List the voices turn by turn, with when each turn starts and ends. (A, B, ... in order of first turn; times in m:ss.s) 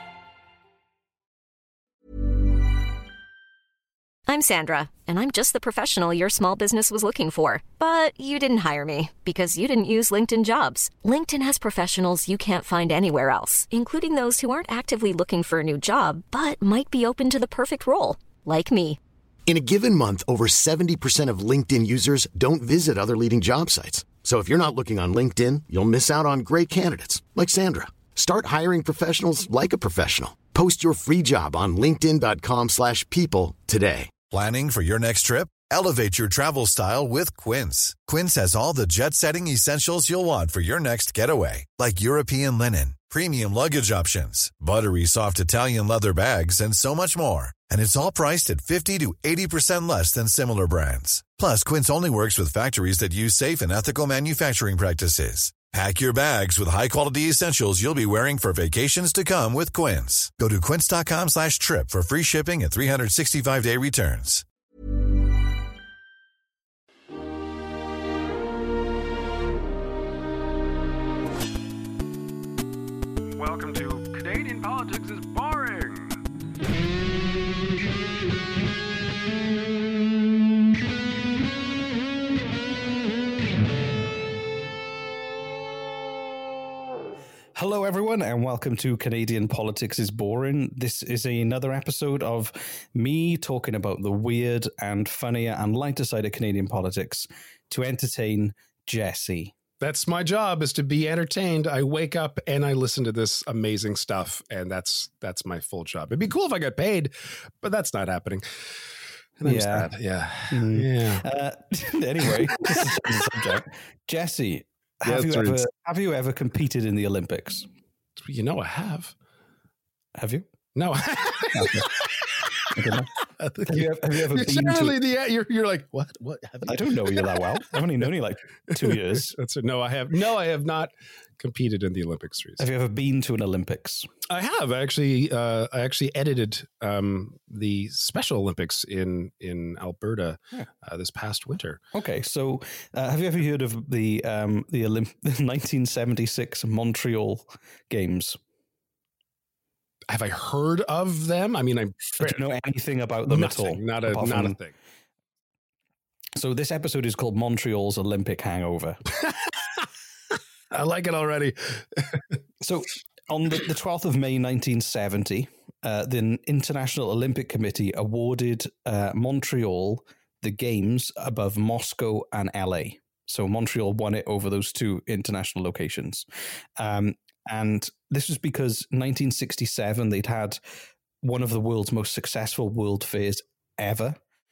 0:04.3-0:19.0 A
0:19.5-0:34.2 B
0:34.3-1:04.4 C
1:13.4-1:16.2 D
1:27.6-1:39.5 E
1:39.8-1:48.4 D
1:49.4-1:51.3 D
1:49.4-1:49.9 E
1:50.5-1:57.7 E
1:52.3-1:53.1 D
1:55.0-1:55.6 D
1:58.2-1:59.2 D
2:00.2-2:00.5 E
2:00.8-2:07.4 D
2:01.5-2:01.9 E
2:02.7-2:03.1 E
2:03.7-2:05.0 E
2:06.7-2:09.4 E
2:08.7-2:12.6 D
2:12.6-2:14.1 E
2:14.3-2:21.8 D
2:21.9-2:28.4 E
2:30.1-2:32.4 D
2:32.2-2:34.6 E
2:33.3-2:34.7 D
2:36.4-2:39.0 E
2:39.2-2:39.8 D
2:40.7-2:42.2 D
2:42.6-2:56.3 E
2:56.8-3:00.6 E
3:01.2-3:04.2 E